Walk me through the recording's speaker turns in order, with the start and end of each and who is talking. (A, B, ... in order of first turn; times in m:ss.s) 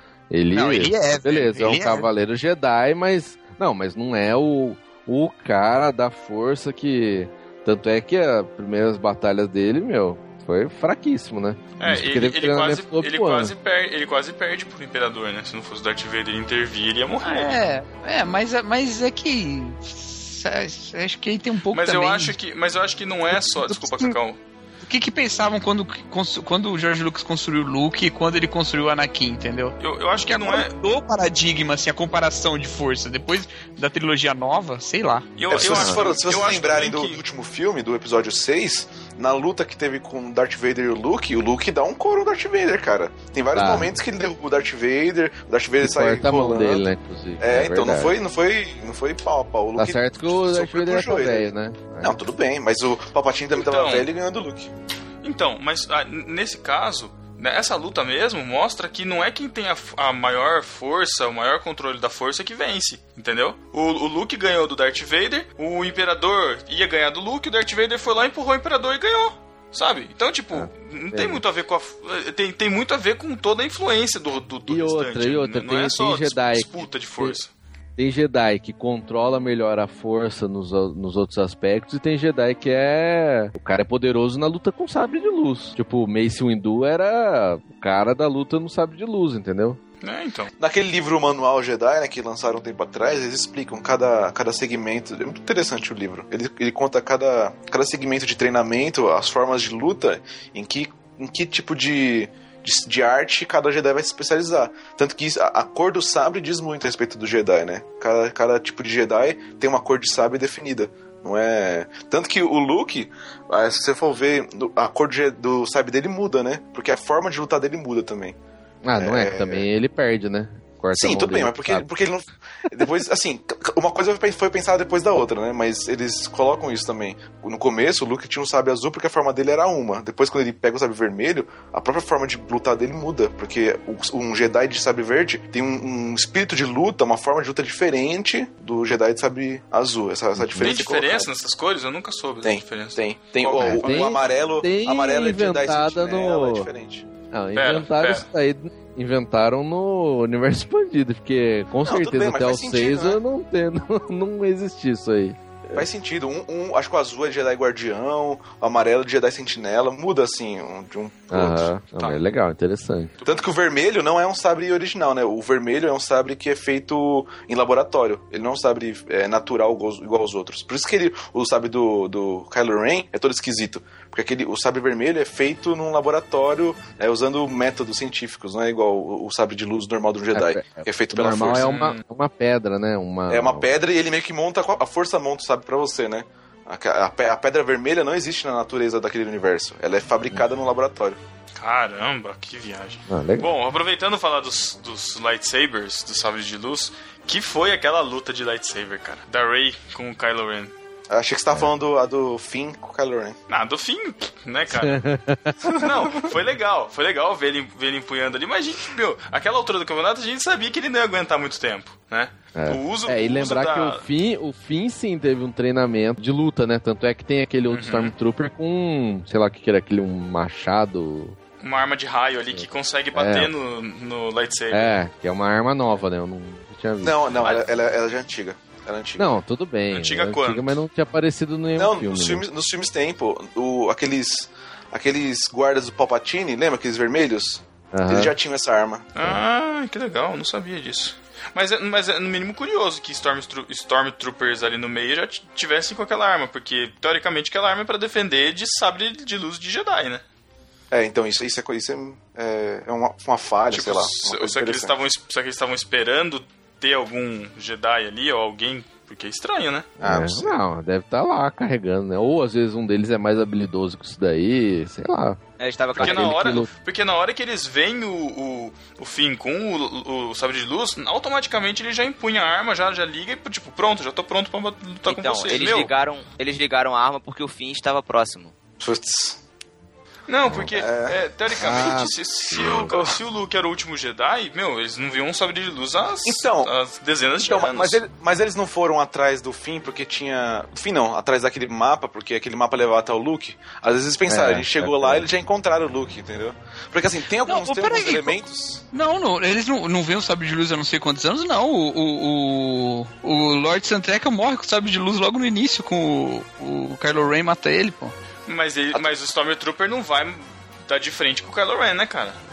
0:00.3-0:13.5 A
0:00.5-0:02.1 B
0:11.8-0:17.6 C
0:17.2-0:22.4 B
0:21.7-0:24.4 C
0:23.3-0:24.2 B
0:24.8-0:35.3 B
0:29.8-0:30.7 C
0:35.4-0:37.2 C
0:35.5-0:46.9 D
0:35.7-0:36.0 A
0:43.5-0:43.9 A
0:45.8-0:48.2 A
0:47.4-0:51.5 D
0:49.8-0:52.2 A
0:52.0-0:54.7 D
0:53.6-0:54.1 C
0:55.2-1:17.5 C
1:10.5-1:11.4 A
1:14.7-1:17.4 A
1:18.0-1:29.8 A
1:30.0-1:30.5 C
1:30.6-1:58.4 D
1:58.8-2:01.9 A
1:59.0-1:59.6 D
2:01.0-2:21.3 D
2:20.4-2:20.9 A
2:20.6-2:24.2 C
2:22.4-2:27.1 D
2:23.6-2:26.7 A
2:27.3-2:35.9 A
2:27.6-2:28.3 C
2:31.8-2:33.2 D
2:35.7-2:41.7 D
2:41.3-2:43.1 A
2:43.2-2:43.5 C
2:43.3-3:01.7 D
3:00.3-3:03.7 A
3:01.3-3:02.0 C
3:03.3-3:11.2 D
3:11.6-3:20.7 C
3:13.1-3:13.5 A
3:21.1-3:23.4 D
3:23.5-3:25.0 C
3:24.7-3:25.7 A
3:25.8-3:34.0 C
3:32.6-3:41.4 A
3:37.7-3:38.1 C
3:41.6-3:45.0 C
3:43.1-3:43.5 A
3:44.7-3:47.5 A
3:47.0-3:49.3 D
3:47.4-3:47.8 C
3:49.2-3:52.4 A
3:49.9-3:50.8 C
3:51.8-3:59.1 D
3:57.9-3:58.3 A
3:59.1-4:10.2 C
4:10.9-4:15.0 D
4:13.7-4:19.9 C
4:20.0-4:20.5 D
4:20.0-4:25.4 A
4:25.6-4:26.4 E
4:26.0-4:26.7 A
4:26.0-4:35.9 C
4:35.0-4:38.5 E
4:38.8-4:39.4 D
4:40.3-4:48.0 C
4:40.7-4:41.2 D
4:41.6-4:43.0 A
4:42.9-4:43.2 D
4:46.2-4:46.7 D
4:47.4-4:58.8 D
4:54.3-4:55.3 A
4:57.4-5:08.1 B
5:08.5-5:12.4 C